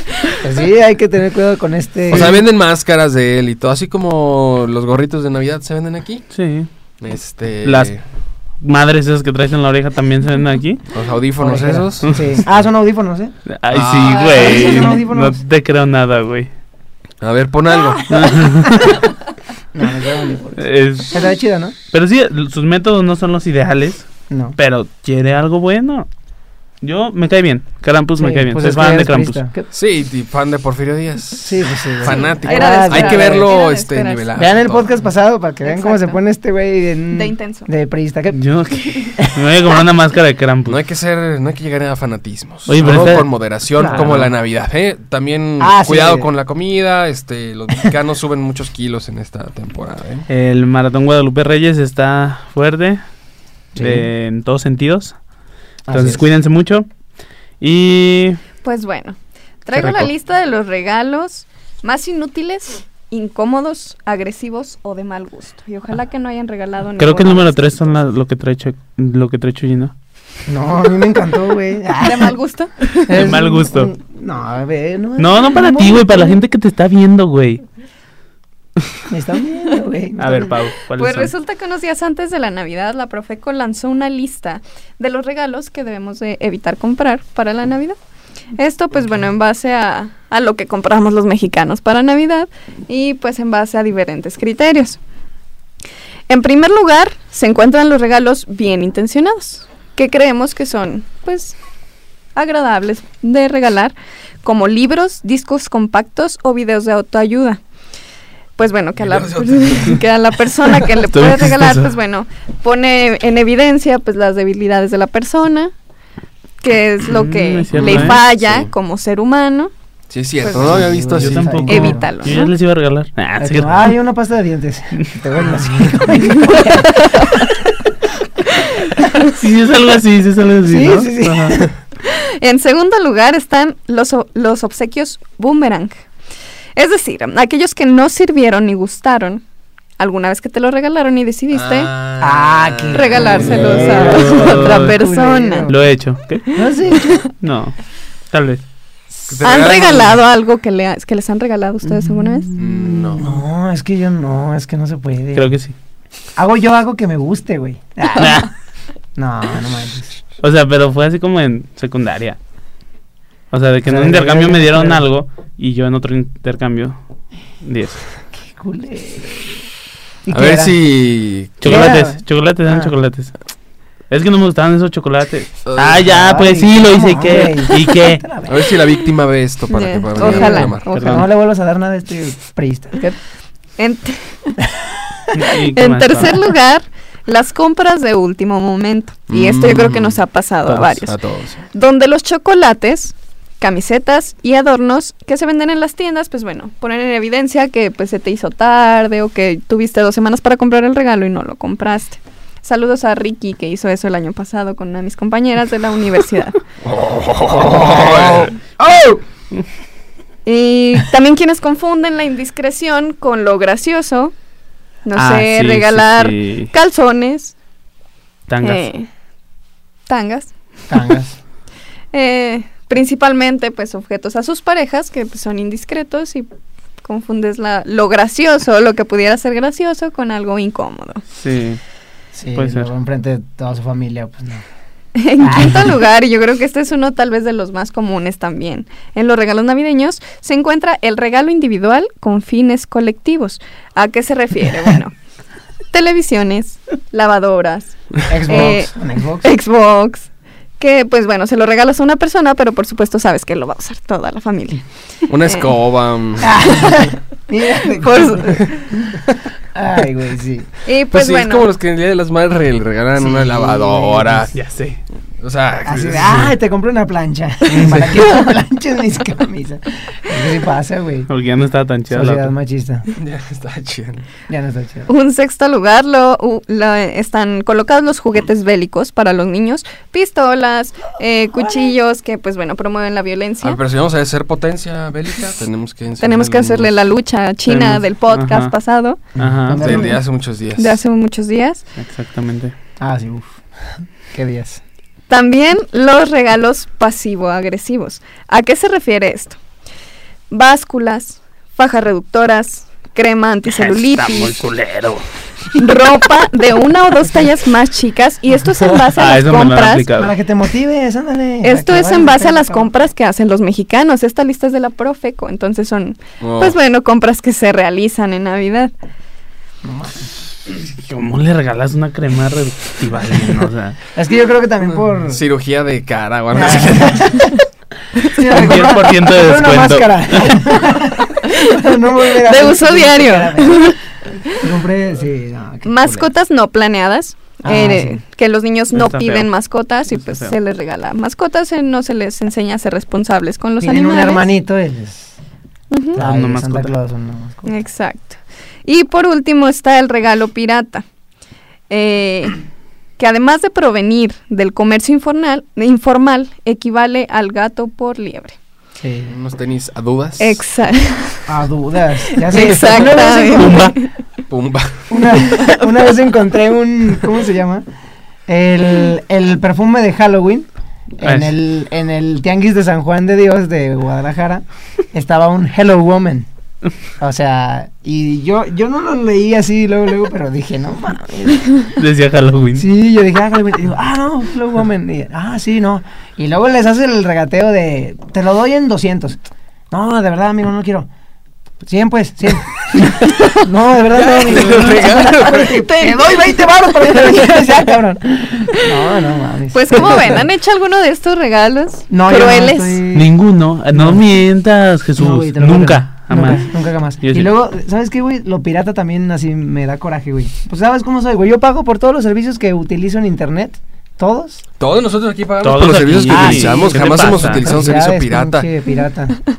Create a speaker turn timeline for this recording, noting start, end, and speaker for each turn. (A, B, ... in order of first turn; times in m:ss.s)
0:00.3-0:02.4 A
0:02.1-0:06.3 B
0:06.3-0:06.7 C
0:07.0-0:08.0 B
0:07.6-0:07.9 C
0:08.6-0:10.8 C
0:10.9-0:12.5 B
0:11.4-0:13.3 A
0:12.0-0:12.4 C
0:13.5-0:16.5 C
0:13.7-0:14.3 B
0:14.1-0:15.0 D
0:14.1-0:15.4 A
0:17.2-0:18.2 B
0:18.1-0:19.0 C
0:19.7-0:21.7 A
0:20.6-0:21.2 C
0:21.9-0:26.1 C
0:24.3-0:24.6 A
0:26.8-0:29.4 C
0:28.2-0:29.7 A
0:29.7-0:34.9 B
0:31.4-0:33.5 A
0:32.0-0:34.4 D
0:34.3-0:38.4 A
0:35.6-0:36.2 D
0:37.1-0:37.7 D
0:38.3-0:40.8 C
0:38.8-0:39.1 D
0:40.6-0:50.3 B
0:42.7-0:44.3 C
0:43.8-0:44.1 A
0:45.6-0:46.3 A
0:50.3-0:53.0 C
0:53.7-0:54.1 A
0:53.8-0:55.2 C
0:55.8-0:56.2 A
0:55.9-0:56.9 C
0:57.6-0:58.4 C
0:58.6-1:07.9 D
0:59.8-1:00.1 B
1:07.0-1:09.9 C
1:10.5-1:12.3 A
1:11.9-1:12.9 D
1:12.9-1:13.9 C
1:13.1-1:16.2 A
1:15.2-1:17.6 C
1:19.1-1:20.5 A
1:20.2-1:21.3 C
1:20.9-1:28.0 D
1:28.6-1:35.0 D
1:36.3-1:41.6 D
1:42.4-1:47.6 D
1:48.6-1:55.7 D
1:49.0-1:50.0 B
1:51.0-1:51.9 C
1:56.6-1:59.7 D
1:57.1-1:58.2 C
1:57.7-1:58.7 B
2:00.1-2:01.6 B
2:00.4-2:01.0 D
2:00.5-2:02.1 A
2:01.1-2:03.9 C
2:01.7-2:02.4 D
2:03.4-2:07.6 A
2:06.4-2:07.5 D
2:09.2-2:11.7 C
2:10.6-2:11.7 A
2:12.0-2:16.0 D
2:16.8-2:19.4 D
2:20.0-2:21.9 D
2:21.5-2:24.2 B
2:22.2-2:25.8 A
2:22.9-2:25.7 D
2:23.8-2:25.0 C
2:25.7-2:26.6 C
2:26.5-2:27.2 A
2:26.9-2:27.3 D
2:27.4-2:27.7 C
2:28.3-2:28.6 C
2:29.3-2:30.2 B
2:29.4-2:32.5 D
2:31.8-2:35.5 A
2:32.6-2:33.4 B
2:35.3-2:35.7 C
2:36.4-2:38.5 A
2:38.2-2:38.5 C
2:39.2-2:40.2 A
2:40.4-2:42.4 C
2:43.5-2:47.0 C
2:43.8-2:45.0 A
2:47.6-2:48.0 C
2:48.3-2:49.6 A
2:50.2-2:50.7 A
2:50.3-2:51.7 B
2:51.6-2:53.3 C
2:51.6-2:52.9 A
2:54.1-2:58.2 C
2:55.6-2:56.0 B
2:56.0-2:58.7 A
2:58.4-3:00.9 B
2:59.7-3:01.2 D
3:00.2-3:01.3 C
3:00.2-3:03.2 A
3:03.8-3:04.6 D
3:05.3-3:06.4 C
3:05.7-3:11.2 D
3:09.3-3:10.2 B
3:10.8-3:11.6 B
3:11.7-3:26.6 D
3:26.8-3:28.5 B
3:27.5-3:29.2 A
3:30.4-3:34.3 D
3:35.0-3:37.5 D
3:35.1-3:36.7 C
3:38.5-3:38.8 C
3:38.6-3:39.1 D
3:40.1-3:40.5 D
3:40.9-3:41.4 A
3:42.1-3:46.5 D
3:47.0-3:51.2 D
3:51.3-3:51.8 C
3:52.3-3:54.6 A
3:52.6-3:52.9 C
3:55.1-4:05.1 D
3:55.4-3:55.9 A
4:05.9-4:10.3 D
4:08.3-4:09.5 A
4:10.8-4:14.8 D
4:15.3-4:17.0 B
4:15.4-4:15.7 D
4:16.4-4:18.7 A
4:16.7-4:17.0 D
4:17.8-4:18.9 D
4:19.7-4:20.7 A
4:20.8-4:21.7 D
4:21.1-4:24.5 B
4:23.2-4:24.5 A
4:24.5-4:25.0 C
4:25.4-4:26.5 B
4:25.8-4:31.3 A
4:27.7-4:28.1 C
4:31.3-4:32.5 C
4:32.1-4:33.1 A
4:33.1-4:34.2 B
4:34.5-4:35.1 A
4:35.1-4:43.8 D
4:43.6-4:46.9 B
4:46.2-4:49.2 D
4:48.3-4:48.7 C
4:49.4-4:50.0 C
4:49.4-4:50.2 A
4:49.7-4:51.0 B
4:50.8-4:51.8 D
4:52.0-4:52.7 C
4:53.0-4:53.6 A
4:54.3-4:54.8 A
4:55.3-4:59.6 D
5:00.5-5:04.6 D
5:03.7-5:05.2 C
5:05.7-5:10.1 D
5:09.1-5:10.3 C
5:10.2-5:12.9 A
5:11.6-5:18.9 D
5:16.4-5:16.8 B
5:19.8-5:20.3 A
5:20.8-5:24.0 C
5:24.1-5:25.4 A
5:25.2-5:27.6 B
5:26.5-5:27.5 A
5:28.2-5:34.0 A
5:28.4-5:30.6 C
5:31.4-5:34.0 D
5:34.6-5:36.3 A
5:35.8-5:44.4 D
5:37.6-5:38.2 A
5:38.9-5:39.5 C
5:40.1-5:40.5 C
5:43.8-5:45.3 A
5:45.9-5:46.2 D
5:46.1-5:47.8 A
5:46.2-5:46.9 C
5:47.6-5:51.0 D
5:51.9-5:52.6 D
5:53.2-5:58.6 D
5:59.0-5:59.3 A
5:59.3-6:00.6 B
6:00.4-6:01.5 D
6:01.5-6:03.9 A
6:02.3-6:04.1 D
6:03.3-6:04.0 C
6:04.5-6:05.3 B
6:05.1-6:07.8 A
6:08.5-6:16.5 A
6:11.2-6:11.5 C
6:17.2-6:21.9 A
6:21.9-6:22.9 C
6:22.8-6:31.1 A
6:31.8-6:40.4 A
6:34.1-6:35.8 B
6:34.9-6:37.5 D
6:39.7-6:43.0 D
6:42.1-6:43.3 A
6:43.1-6:46.7 C
6:43.9-6:44.2 A
6:45.2-6:54.6 A
6:47.2-6:47.5 C
6:54.8-6:58.7 B
6:55.6-6:57.7 C
6:56.3-6:59.4 A